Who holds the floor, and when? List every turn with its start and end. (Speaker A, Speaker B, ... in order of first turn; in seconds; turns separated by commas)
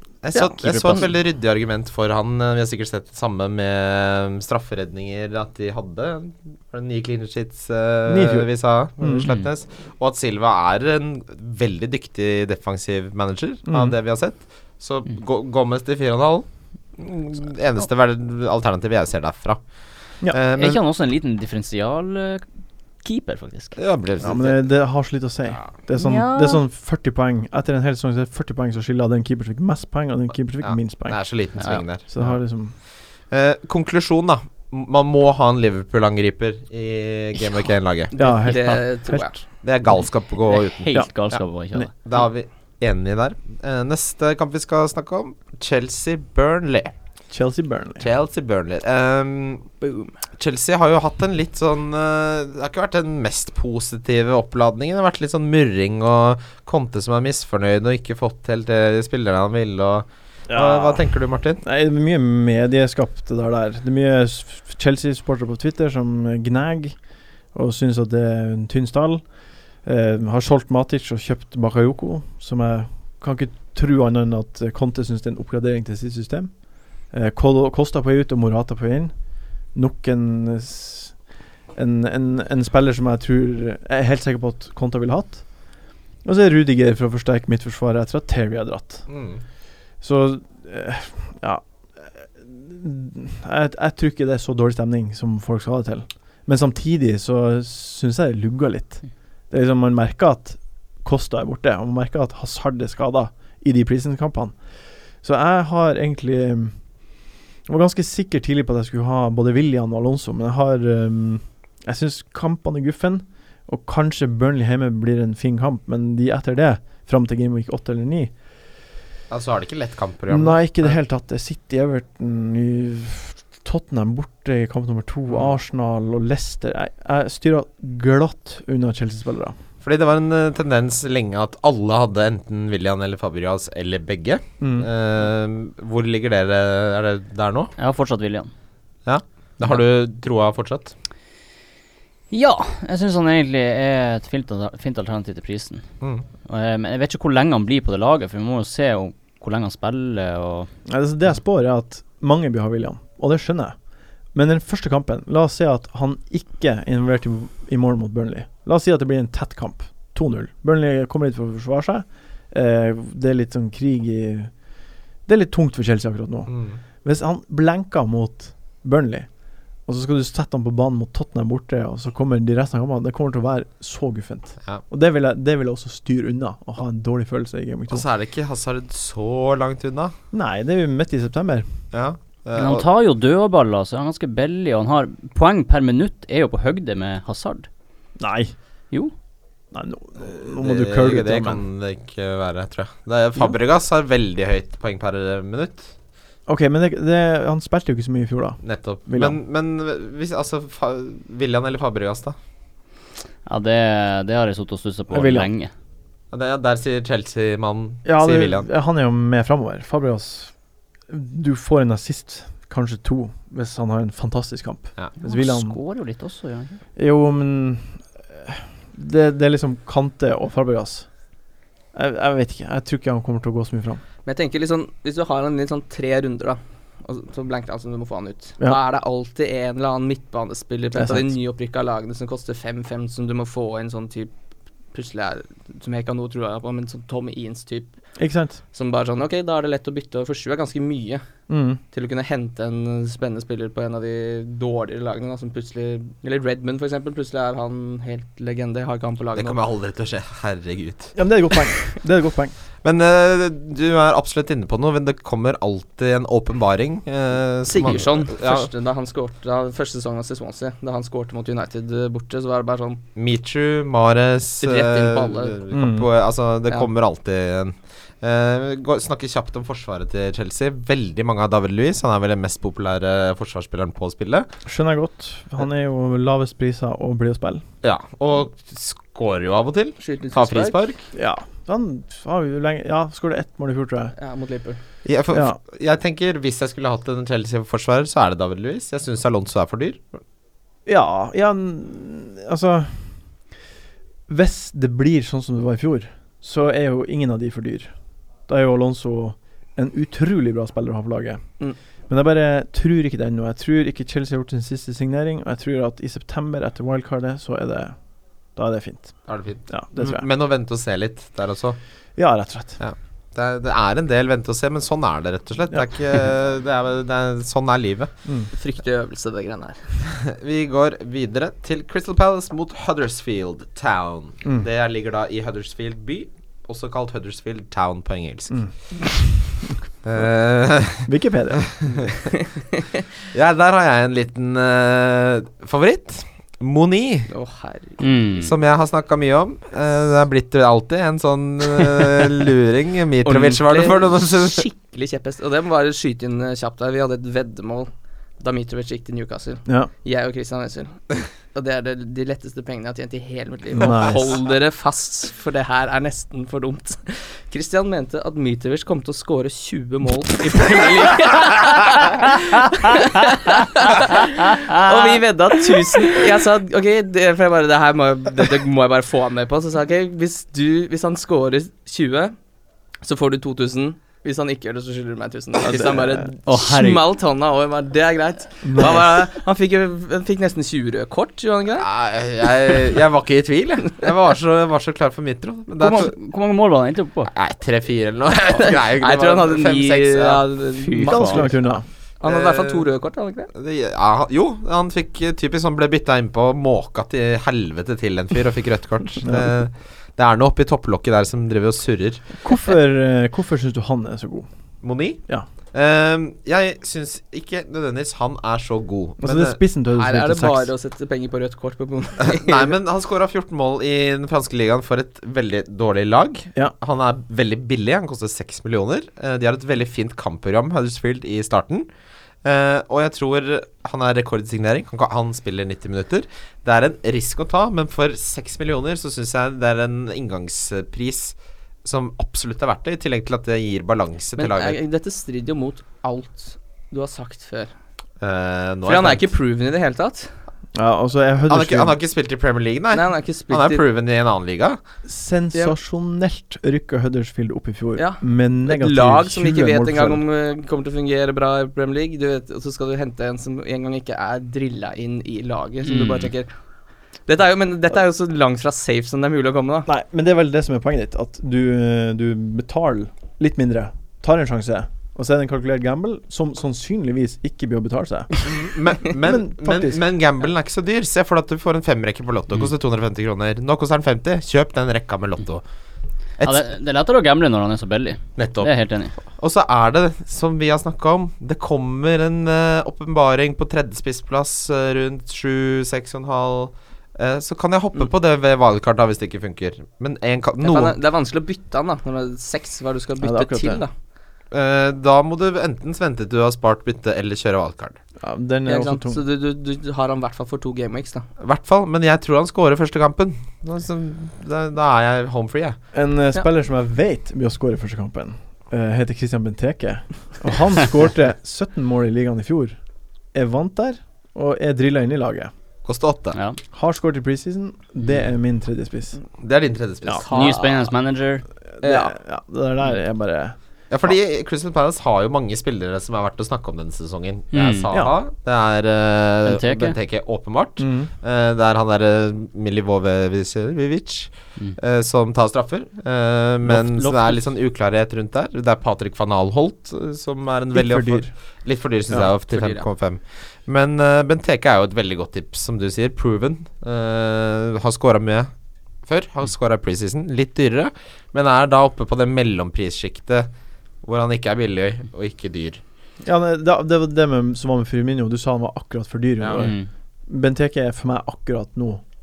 Speaker A: 0.2-16.4, Speaker B: 0.6-1.0, Speaker C: 8.1-8.5, Speaker C: 9.0-9.2, Speaker B: 9.2-9.4, Speaker C: 13.7-13.9, Speaker A: 17.0-19.6, Speaker A: 20.3-20.8, Speaker B: 20.6-22.4, Speaker B: 23.0-23.8, Speaker A: 23.8-24.7, Speaker C: 24.2-31.2, Speaker B: 25.9-26.6, Speaker A: 30.6-32.4, Speaker C: 32.0-32.7, Speaker A: 33.3-38.1, Speaker D: 38.1-39.4, Speaker C: 38.1-39.3, Speaker A: 39.6-41.4, Speaker B: 40.5-41.9, Speaker A: 42.0-46.9, Speaker C: 47.3-48.0, Speaker A: 48.0-49.8, Speaker A: 50.4-61.6, Speaker C: 60.5-61.0, Speaker C: 61.6-67.0, Speaker C: 67.5-69.2, Speaker C: 69.8-76.5, Speaker C: 77.1-79.1, Speaker C: 79.7-81.1, Speaker C: 81.7-85.4, Speaker C: 86.2-89.1, Speaker A: 89.1-89.4, Speaker C: 90.0-104.5, Speaker C: 105.2-106.7, Speaker C: 107.7-118.3, Speaker A: 119.3-121.0, Speaker C: 120.3-129.5, Speaker A: 129.8-137.7, Speaker C: 134.6-134.9, Speaker B: 137.8-138.5, Speaker A: 139.1-140.9, Speaker B: 142.3-145.8, Speaker B: 146.4-150.7, Speaker C: 150.8-153.7, Speaker C: 154.3-164.5, Speaker C: 165.2-166.5, Speaker A: 166.5-166.8, Speaker C: 167.0-169.3, Speaker C: 169.8-178.0, Speaker A: 177.9-180.1, Speaker C: 180.3-181.7, Speaker A: 181.9-182.8, Speaker B: 182.6-187.7, Speaker C: 188.2-188.5, Speaker C: 189.7-191.6, Speaker A: 190.5-195.9, Speaker C: 196.5-199.4, Speaker A: 198.6-202.3, Speaker B: 203.4-205.7, Speaker C: 205.1-205.5, Speaker A: 206.3-208.7, Speaker C: 208.0-210.5, Speaker C: 211.1-215.8, Speaker B: 215.2-216.8, Speaker C: 217.0-221.1, Speaker C: 221.9-224.0, Speaker D: 224.2-234.3, Speaker C: 230.9-231.3, Speaker D: 234.9-237.9, Speaker C: 238.2-238.6, Speaker D: 238.7-241.2, Speaker C: 241.5-241.8, Speaker D: 241.9-249.6, Speaker A: 249.3-251.1, Speaker C: 251.1-252.5, Speaker A: 252.8-258.7, Speaker D: 257.7-263.0, Speaker A: 263.1-274.5, Speaker D: 264.6-265.6, Speaker C: 265.7-266.1, Speaker C: 274.6-277.6, Speaker A: 277.8-281.1, Speaker D: 280.0-280.8, Speaker C: 281.1-284.1, Speaker D: 284.2-284.8, Speaker A: 285.0-290.0, Speaker C: 285.3-285.6, Speaker C: 290.9-293.1, Speaker C: 294.3-297.9, Speaker C: 298.5-301.4, Speaker C: 302.1-307.9, Speaker C: 308.6-310.2, Speaker A: 309.3-311.8, Speaker C: 312.1-312.8, Speaker A: 312.8-318.1, Speaker D: 318.5-319.8, Speaker A: 320.2-328.6, Speaker A: 330.0-331.9, Speaker C: 331.0-331.7, Speaker A: 333.3-337.3, Speaker D: 337.3-338.0, Speaker B: 338.0-338.5, Speaker A: 338.4-344.7, Speaker D: 343.2-372.4, Speaker C: 349.6-349.9, Speaker C: 353.7-354.3, Speaker B: 364.5-365.2, Speaker D: 373.0-381.9, Speaker C: 375.6-376.3, Speaker B: 376.4-377.0, Speaker C: 378.6-379.1, Speaker A: 381.8-386.1, Speaker B: 385.8-387.3, Speaker A: 387.3-390.4, Speaker D: 388.6-391.5, Speaker B: 390.9-391.4, Speaker C: 391.0-391.8, Speaker D: 392.2-393.5, Speaker A: 392.2-392.9, Speaker A: 393.5-402.2, Speaker C: 399.2-399.5, Speaker C: 402.4-404.5, Speaker A: 404.8-405.2, Speaker A: 405.7-409.6, Speaker C: 409.2-410.7, Speaker D: 409.9-412.7, Speaker A: 412.3-421.9, Speaker A: 422.4-434.8, Speaker D: 434.4-437.7, Speaker A: 438.2-439.3, Speaker D: 438.8-440.3, Speaker C: 440.7-441.9, Speaker A: 441.4-444.8, Speaker D: 442.9-443.8, Speaker C: 445.0-450.2, Speaker D: 447.9-456.5, Speaker B: 455.8-456.3, Speaker D: 457.3-459.9, Speaker C: 459.9-468.4, Speaker A: 468.4-475.6, Speaker C: 469.1-470.0, Speaker A: 476.4-476.6, Speaker B: 476.4-479.1, Speaker A: 478.4-478.7, Speaker A: 479.3-490.9, Speaker D: 490.6-493.9, Speaker C: 493.2-493.8, Speaker A: 494.5-498.0, Speaker C: 498.2-499.2, Speaker D: 498.6-501.3, Speaker A: 501.4-505.8, Speaker C: 505.9-512.8, Speaker C: 513.3-515.5, Speaker A: 515.8-516.4, Speaker C: 516.7-519.2, Speaker A: 519.4-520.2, Speaker D: 520.2-520.9, Speaker B: 520.2-521.4, Speaker C: 521.8-523.5, Speaker D: 521.8-522.1, Speaker A: 523.9-548.5, Speaker B: 527.5-527.9, Speaker B: 529.5-530.0, Speaker C: 530.8-531.1, Speaker B: 536.6-537.4, Speaker C: 540.7-541.3, Speaker D: 542.4-542.9, Speaker A: 549.0-553.5, Speaker A: 554.0-555.8, Speaker C: 556.2-559.8, Speaker A: 559.4-559.7, Speaker B: 559.6-559.9, Speaker C: 560.3-562.0